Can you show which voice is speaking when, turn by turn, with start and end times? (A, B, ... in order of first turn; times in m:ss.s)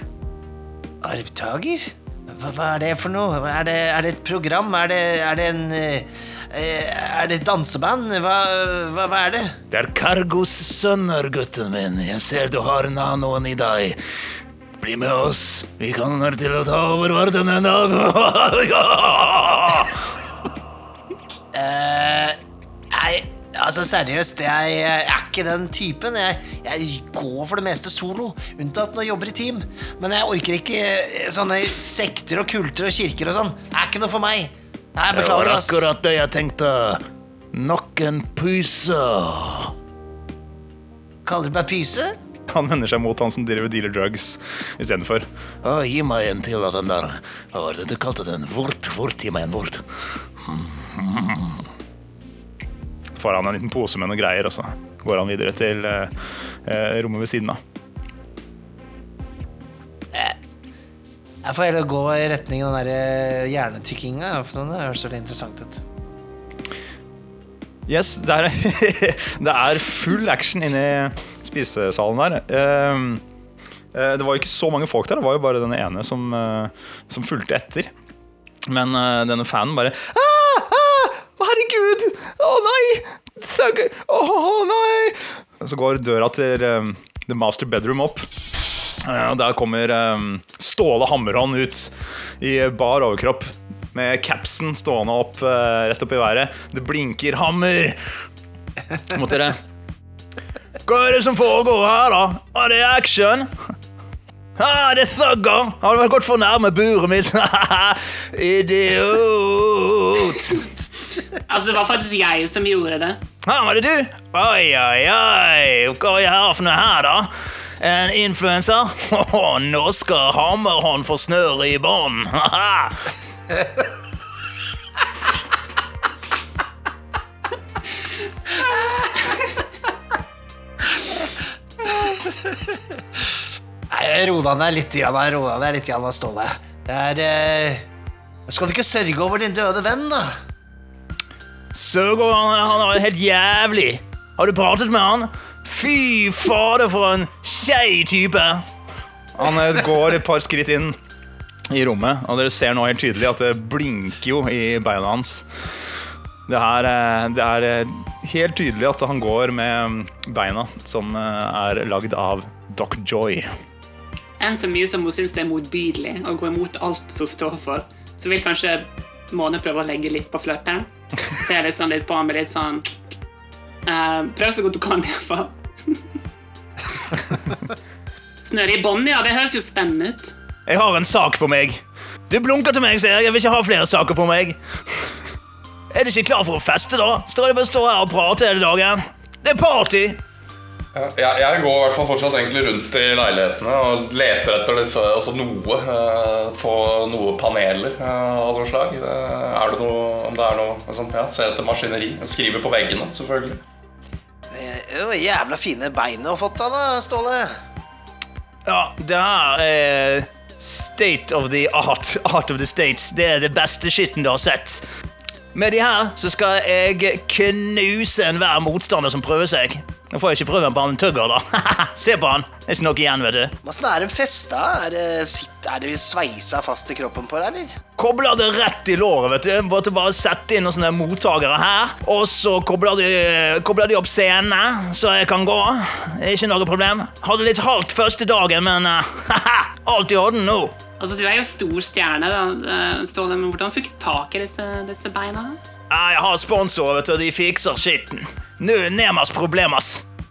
0:01.0-0:09.6 A
0:09.7-0:14.0 B
0:14.8-0:20.0 B
0:21.5-0:22.4 A
0:22.9-0:36.0 A
0:35.1-0:39.7 B
0:41.2-0:42.2 A
0:42.5-0:45.3 C
0:45.6-0:49.8 B
0:50.4-0:51.6 B
0:53.2-0:56.1 C
0:56.6-0:57.6 C
1:01.4-1:05.8 A
1:07.9-1:13.2 C
1:13.9-1:17.9 C
1:18.7-1:28.3 C
1:29.0-1:37.8 C
1:37.6-1:37.9 B
1:39.1-1:39.5 C
1:40.9-1:43.5 B
1:44.6-1:50.7 B
1:51.5-1:53.2 D
1:53.4-2:03.0 B
2:11.9-2:12.6 A
2:13.9-2:17.8 A
2:18.5-2:20.3 A
2:21.7-2:28.6 B
2:29.4-2:31.0 C
2:31.7-2:35.5 C
2:36.5-2:43.5 C
2:44.4-2:52.9 D
2:53.9-2:56.0 D
2:58.4-3:00.4 D
3:00.7-3:05.1 B
3:05.9-3:10.2 B
3:11.0-3:23.6 E
3:24.5-3:27.5 A
3:28.6-3:34.8 B
3:35.5-3:43.6 B
3:43.6-3:47.8 A
3:48.0-4:00.7 B
4:01.0-4:05.6 D
4:05.9-4:10.0 B